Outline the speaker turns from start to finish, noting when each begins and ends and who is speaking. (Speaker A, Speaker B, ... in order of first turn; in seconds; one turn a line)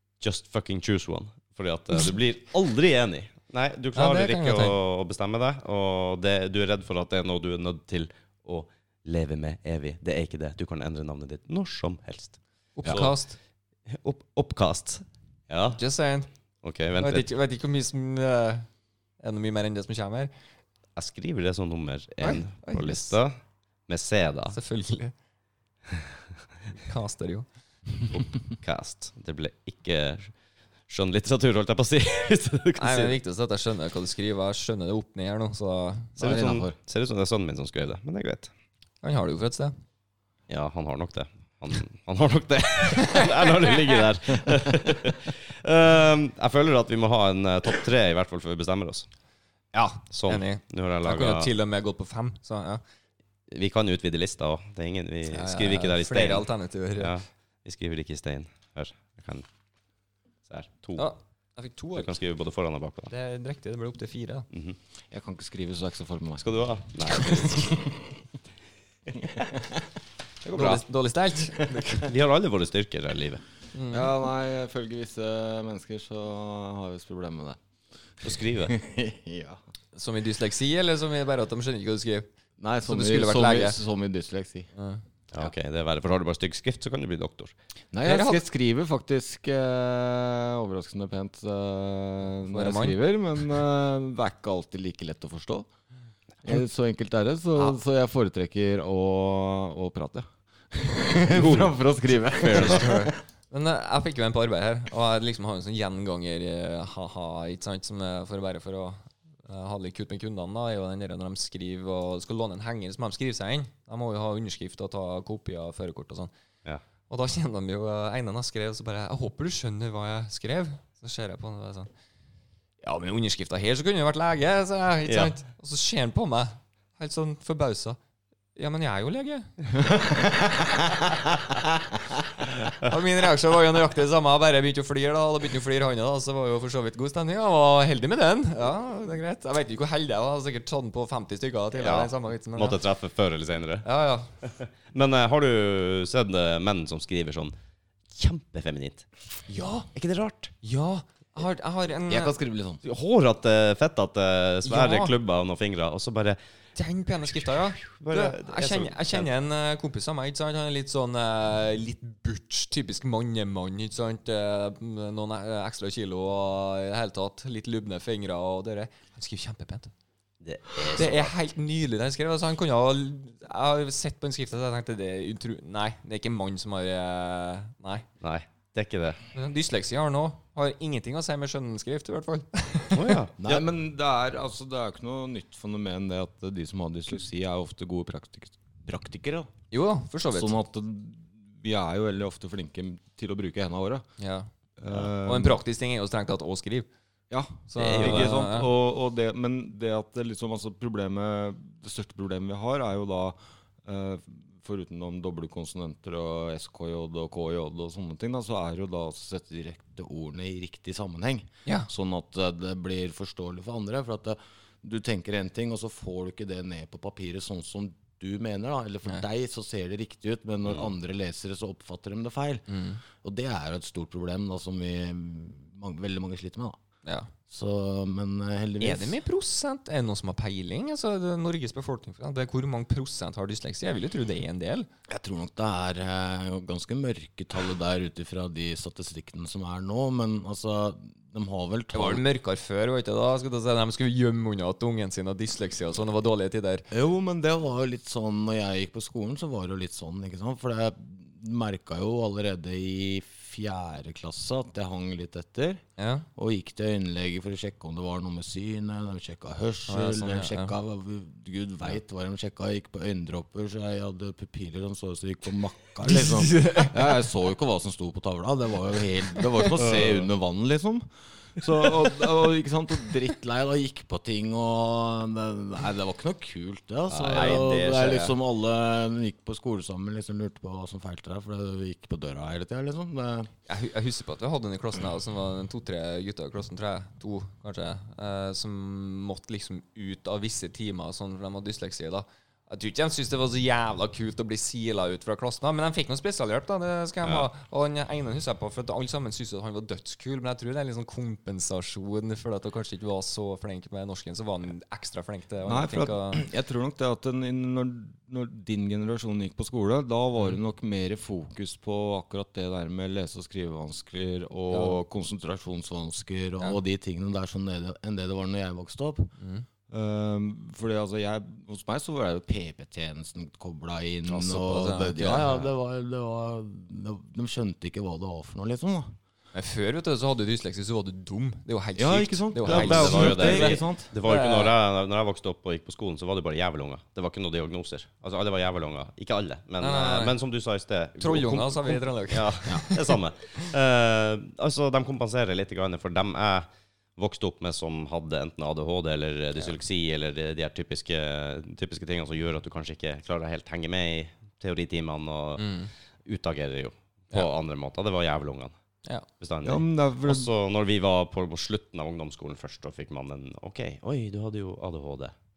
Speaker A: 0.2-13.2
Speaker B: 4.0-4.8
Speaker B: 12.8-13.4
Speaker A: 13.9-15.8
Speaker B: 15.7-16.3
Speaker A: 16.6-17.2
Speaker B: 17.0-18.7
Speaker B: 19.2-20.3
Speaker A: 21.0-23.4
Speaker B: 22.2-23.1
Speaker A: 23.9-24.6
Speaker B: 24.5-25.1
Speaker B: 26.7-27.5
Speaker A: 28.1-30.3
Speaker A: 30.9-33.2
Speaker B: 32.8-36.1
Speaker A: 36.2-38.5
Speaker C: 36.2-36.8
Speaker B: 39.0-39.7
Speaker A: 40.5-49.1
Speaker B: 49.7-52.8
Speaker A: 50.1-51.5
Speaker A: 53.5-59.5
Speaker B: 55.3-57.2
Speaker A: 60.5-61.1
Speaker B: 61.0-62.1
Speaker A: 62.0-63.1
Speaker B: 63.1-64.5
Speaker A: 64.5-64.8
Speaker C: 65.1-66.5
Speaker A: 66.4-67.8
Speaker C: 67.5-68.1
Speaker C: 69.2-69.8
Speaker A: 70.5-70.8
Speaker B: 70.5-72.1
Speaker A: 71.9-73.4
Speaker B: 73.7-74.1
Speaker C: 73.9-77.6
Speaker C: 78.2-79.6
Speaker A: 78.2-78.8
Speaker B: 79.9-82.3
Speaker C: 82.6-84.7
Speaker B: 82.9-83.8
Speaker B: 84.8-85.0
Speaker A: 85.3-87.5
Speaker C: 87.9-95.7
Speaker B: 88.0-88.4
Speaker B: 92.5-93.0
Speaker C: 96.4-103.1
Speaker A: 101.3-101.8
Speaker A: 102.3-103.0
Speaker B: 102.5-116.3
Speaker B: 117.1-121.9
Speaker B: 122.8-128.0
Speaker A: 125.1-125.3
Speaker B: 128.6-129.5
Speaker C: 130.0-130.9
Speaker B: 132.8-142.8
Speaker A: 141.7-143.9
Speaker B: 143.8-144.3
Speaker A: 144.4-147.5
Speaker A: 148.2-149.1
Speaker B: 149.5-149.9
Speaker A: 149.9-150.5
Speaker B: 150.6-152.3
Speaker C: 152.1-152.8
Speaker A: 152.8-156.4
Speaker B: 154.7-155.1
Speaker B: 156.8-169.9
Speaker A: 157.8-159.3
Speaker A: 170.4-171.3
Speaker B: 170.9-178.1
Speaker A: 178.2-179.2
Speaker B: 179.3-183.2
Speaker A: 182.9-183.7
Speaker C: 183.4-189.5
Speaker B: 189.7-190.6
Speaker C: 190.3-194.1
Speaker B: 194.2-194.5
Speaker C: 194.8-195.6
Speaker B: 195.2-196.9
Speaker C: 197.3-222.7
Speaker B: 197.7-198.7
Speaker A: 197.8-198.3
Speaker B: 222.7-223.0
Speaker C: 223.2-226.8
Speaker B: 227.1-227.3
Speaker C: 227.5-229.2
Speaker B: 228.8-234.9
Speaker C: 235.1-242.2
Speaker B: 241.9-246.9
Speaker C: 246.9-255.8
Speaker B: 256.0-256.3
Speaker C: 256.4-283.5
Speaker B: 259.9-260.8
Speaker B: 266.0-267.0
Speaker A: 277.1-277.6
Speaker B: 277.3-278.4
Speaker B: 283.7-306.4
Speaker C: 305.6-319.3
Speaker B: 314.7-315.0
Speaker B: 319.4-319.7
Speaker C: 319.9-329.2
Speaker B: 324.3-325.7
Speaker B: 329.5-334.7
Speaker C: 332.0-334.1
Speaker A: 332.6-355.7
Speaker B: 339.8-340.4
Speaker B: 341.2-343.1
Speaker B: 355.6-355.9
Speaker A: 356.2-358.7
Speaker A: 359.4-365.3
Speaker C: 359.6-360.5